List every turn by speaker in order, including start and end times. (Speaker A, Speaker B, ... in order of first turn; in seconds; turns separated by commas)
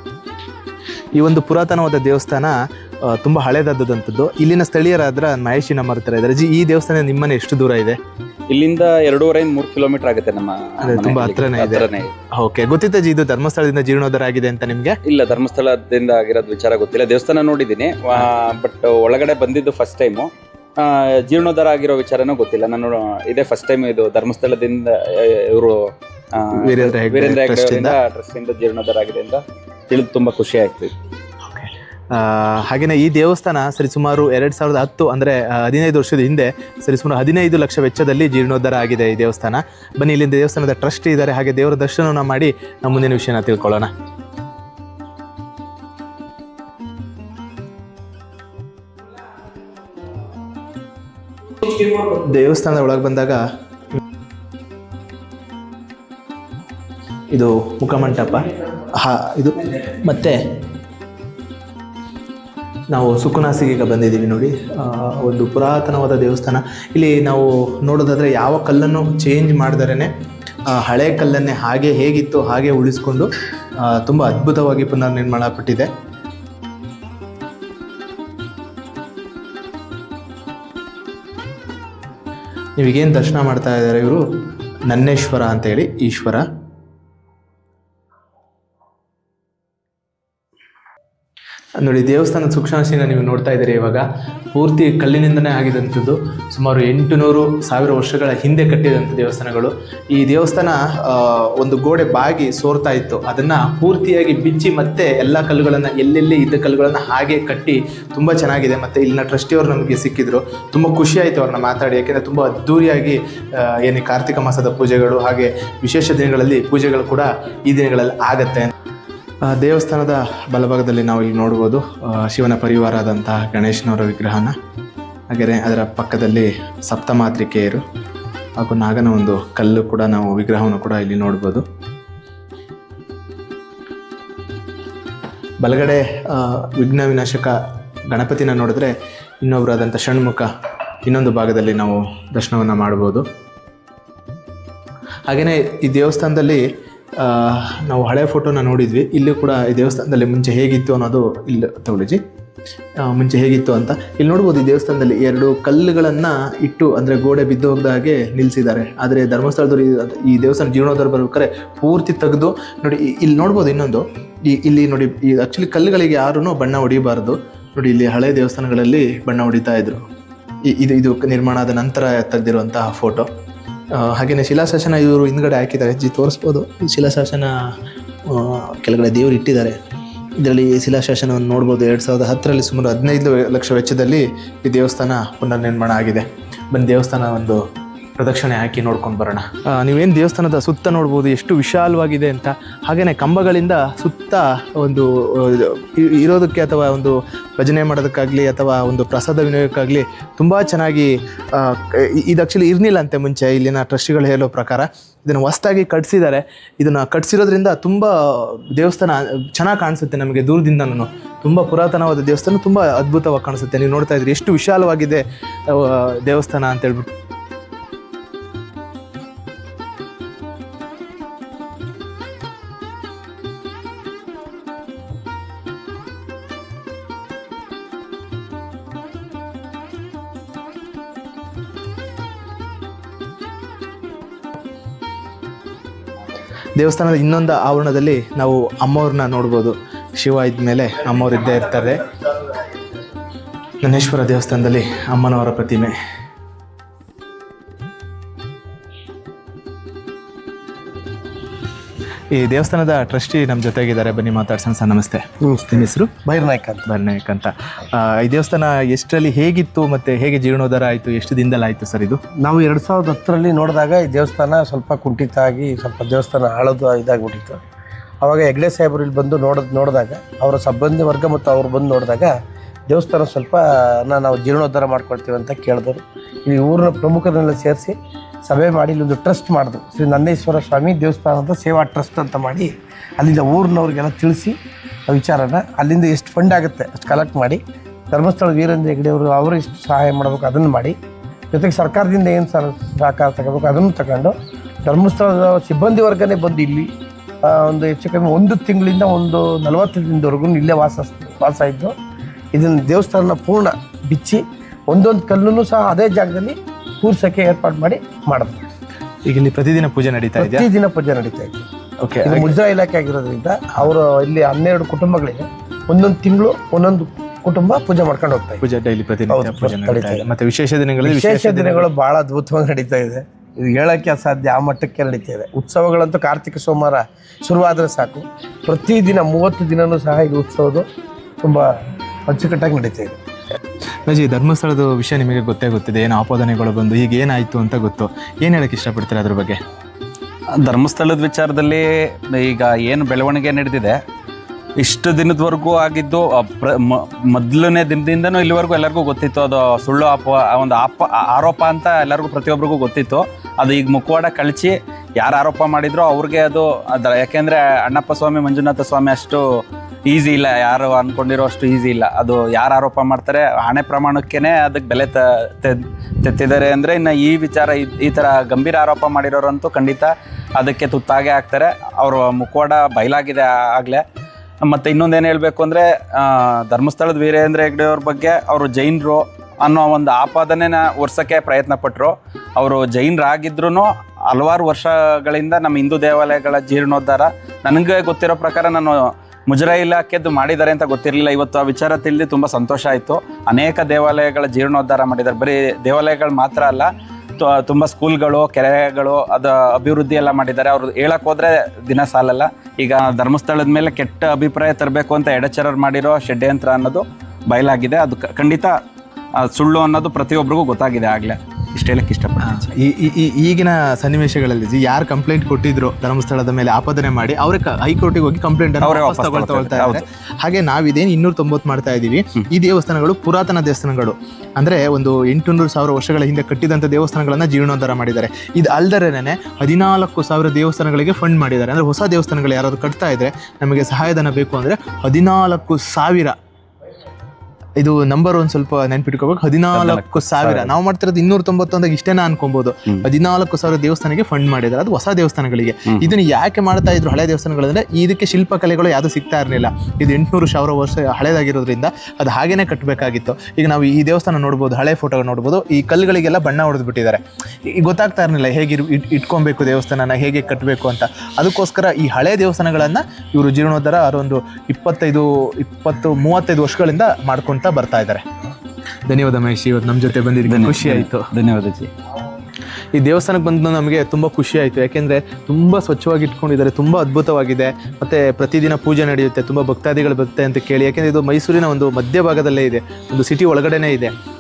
Speaker A: 1.1-8.0, Speaker B: 8.5-12.1, Speaker A: 10.8-15.0, Speaker B: 15.1-25.8, Speaker B: 26.3-30.9, Speaker A: 26.5-28.0, Speaker A: 31.4-43.9, Speaker A: 51.6-53.4, Speaker A: 57.3-60.4, Speaker A: 62.9-70.1, Speaker A: 70.7-73.3, Speaker A: 73.8-75.9, Speaker A: 82.8-84.2, Speaker A: 84.9-86.4, Speaker A: 91.8-118.7, Speaker A: 119.5-124.5, Speaker A: 125.3-127.8, Speaker A: 128.6-131.7, Speaker A: 135.6-137.6, Speaker A: 138.1-140.5, Speaker A: 141.1-143.3, Speaker A: 145.3-146.7, Speaker A: 147.2-152.2, Speaker A: 153.0-170.0, Speaker A: 170.7-173.3, Speaker A: 173.9-177.5, Speaker A: 178.3-179.8, Speaker A: 180.4-187.6, Speaker A: 188.2-217.1, Speaker A: 236.8-242.0, Speaker A: 243.8-245.9, Speaker A: 252.3-256.2, Speaker C: 255.4-256.9, Speaker A: 256.9-262.2, Speaker C: 262.4-267.6, Speaker C: 268.2-272.3, Speaker C: 272.9-284.6, Speaker C: 285.1-291.0, Speaker C: 291.5-296.9, Speaker C: 297.4-301.9, Speaker C: 302.5-308.7, Speaker A: 309.2-310.7, Speaker C: 310.4-311.7, Speaker A: 312.0-312.5, Speaker C: 312.2-318.6, Speaker A: 318.6-321.9, Speaker C: 319.3-320.3, Speaker C: 321.0-330.9, Speaker C: 331.4-331.7, Speaker C: 332.3-333.2, Speaker A: 334.1-339.6, Speaker B: 340.6-344.0, Speaker B: 344.8-359.4, Speaker B: 360.1-374.0, Speaker B: 374.6-408.7, Speaker B: 409.4-412.7, Speaker A: 412.4-436.4, Speaker B: 418.8-420.0, Speaker A: 437.8-468.2, Speaker B: 439.7-440.7, Speaker A: 469.1-471.3, Speaker B: 470.5-471.9, Speaker A: 472.9-484.1